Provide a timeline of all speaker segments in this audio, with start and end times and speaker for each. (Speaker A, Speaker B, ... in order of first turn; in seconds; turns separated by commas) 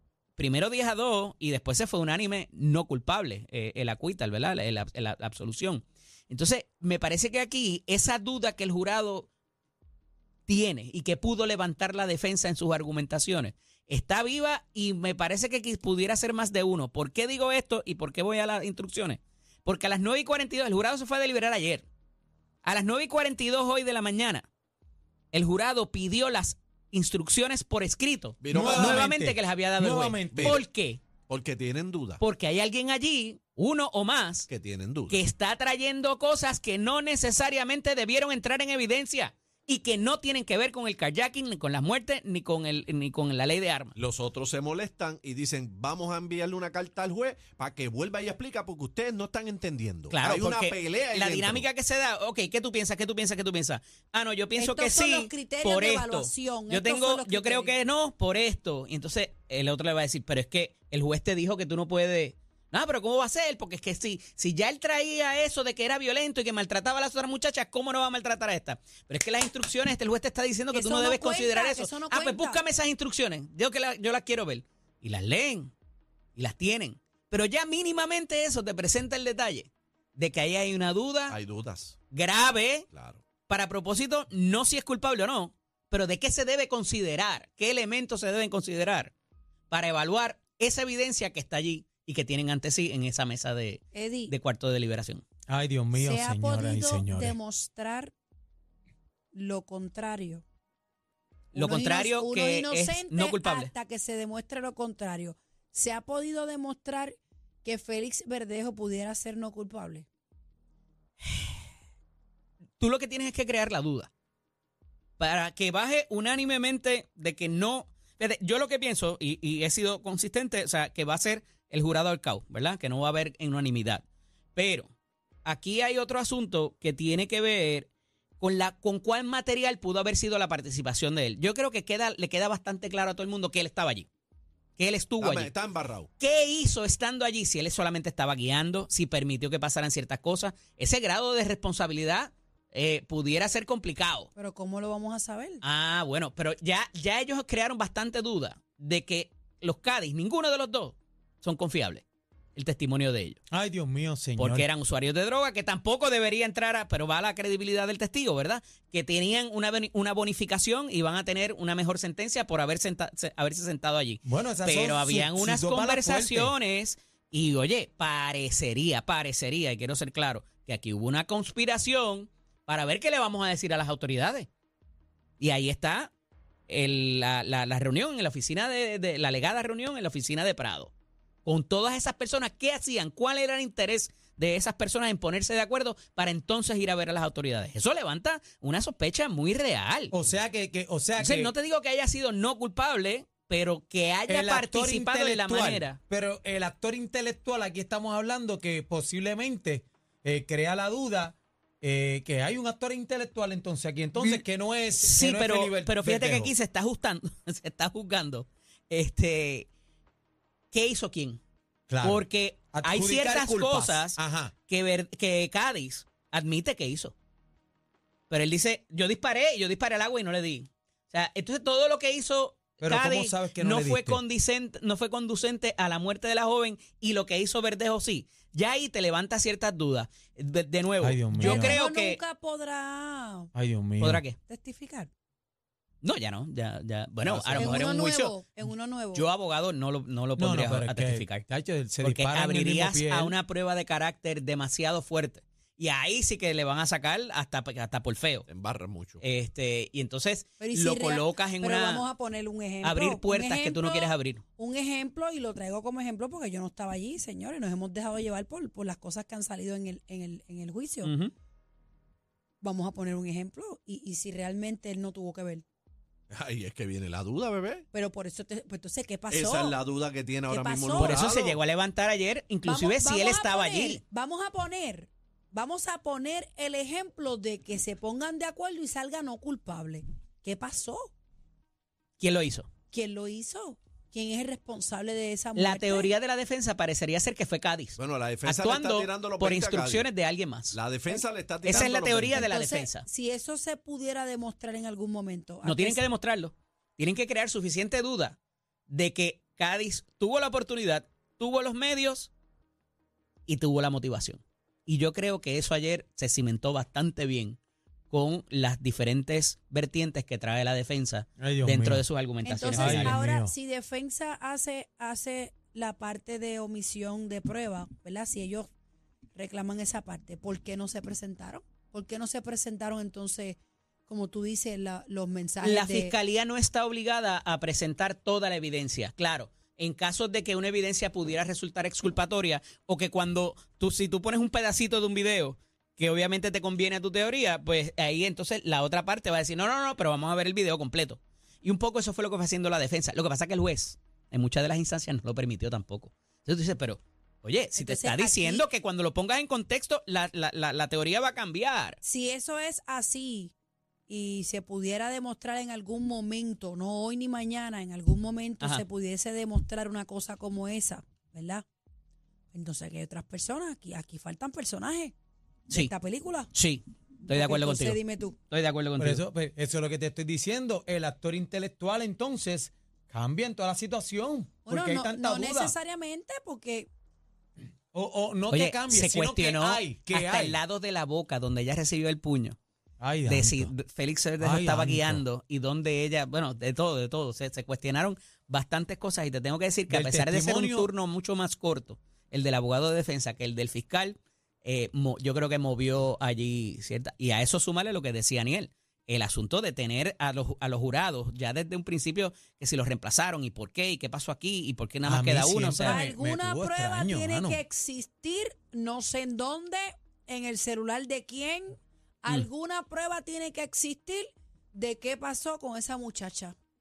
Speaker A: 0.4-9.3, Speaker A: 10.5-21.9, Speaker A: 22.6-24.5, Speaker A: 25.3-31.0, Speaker B: 28.4-29.2, Speaker C: 28.5-30.6, Speaker B: 30.3-30.6, Speaker B: 31.3-32.2, Speaker A: 32.2-34.5, Speaker B: 34.5-35.2, Speaker A: 35.1-43.9, Speaker B: 44.0-51.7, Speaker A: 50.1-75.7, Speaker D: 54.6-57.7, Speaker D: 70.7-72.6, Speaker A: 76.4-81.4, Speaker B: 81.3-82.0, Speaker A: 82.1-82.9, Speaker B: 82.9-83.2, Speaker A: 83.5-89.1, Speaker A: 89.7-95.2, Speaker D: 93.9-94.3, Speaker C: 95.5-97.4, Speaker D: 95.9-98.1, Speaker D: 99.3-100.4, Speaker A: 101.5-103.7, Speaker D: 101.5-110.1, Speaker A: 111.2-111.5, Speaker A: 112.8-114.1, Speaker A: 115.2-124.0, Speaker A: 124.6-124.9, Speaker A: 125.4-127.9, Speaker A: 128.4-134.1, Speaker A: 134.8-135.5, Speaker B: 135.2-136.1, Speaker A: 136.2-144.3, Speaker D: 144.4-145.6, Speaker A: 145.6-152.0, Speaker A: 152.6-153.4, Speaker C: 153.5-154.7, Speaker A: 154.4-174.5, Speaker C: 164.2-166.5, Speaker A: 175.4-176.1, Speaker A: 176.7-180.9, Speaker A: 181.4-190.1, Speaker C: 190.1-191.5, Speaker A: 191.2-196.0, Speaker C: 194.3-206.5, Speaker A: 204.2-204.4, Speaker A: 205.0-209.7, Speaker A: 210.7-211.4, Speaker C: 211.9-214.5, Speaker A: 212.0-217.1, Speaker A: 218.3-232.2, Speaker C: 222.8-224.2, Speaker C: 231.0-231.8, Speaker D: 231.3-233.5, Speaker C: 233.5-234.2, Speaker A: 234.0-234.4, Speaker D: 234.4-235.1, Speaker A: 236.0-238.4, Speaker B: 237.2-237.9, Speaker D: 237.6-239.3, Speaker A: 239.1-241.4, Speaker C: 240.3-243.3, Speaker A: 242.0-248.4, Speaker B: 248.5-249.2, Speaker A: 249.2-252.1, Speaker D: 250.6-261.1, Speaker A: 252.8-254.4, Speaker A: 261.0-261.3, Speaker D: 262.6-265.6, Speaker B: 266.3-267.8, Speaker D: 267.9-269.8, Speaker B: 269.3-271.6, Speaker D: 270.5-271.2, Speaker A: 271.0-274.0, Speaker D: 272.6-281.1, Speaker A: 282.2-282.7, Speaker D: 282.9-286.1, Speaker A: 285.6-293.1, Speaker B: 288.0-290.1, Speaker B: 290.7-292.5, Speaker D: 292.3-296.0, Speaker A: 295.6-298.4, Speaker A: 298.9-302.3, Speaker A: 303.5-307.6, Speaker A: 308.1-313.2, Speaker C: 311.4-312.1, Speaker D: 312.4-318.7, Speaker C: 312.6-313.5, Speaker D: 319.3-326.1, Speaker A: 325.6-352.0, Speaker D: 347.8-348.7, Speaker D: 352.0-353.5, Speaker D: 354.1-361.6, Speaker D: 362.5-365.1, Speaker D: 365.7-366.5, Speaker A: 366.5-369.2, Speaker D: 367.3-368.4, Speaker C: 369.0-375.8, Speaker D: 374.6-376.9, Speaker C: 377.9-380.6, Speaker A: 378.5-382.6, Speaker C: 383.0-383.7, Speaker A: 383.3-406.1, Speaker C: 384.4-385.2, Speaker C: 389.9-390.9, Speaker C: 405.0-407.6, Speaker D: 405.8-416.6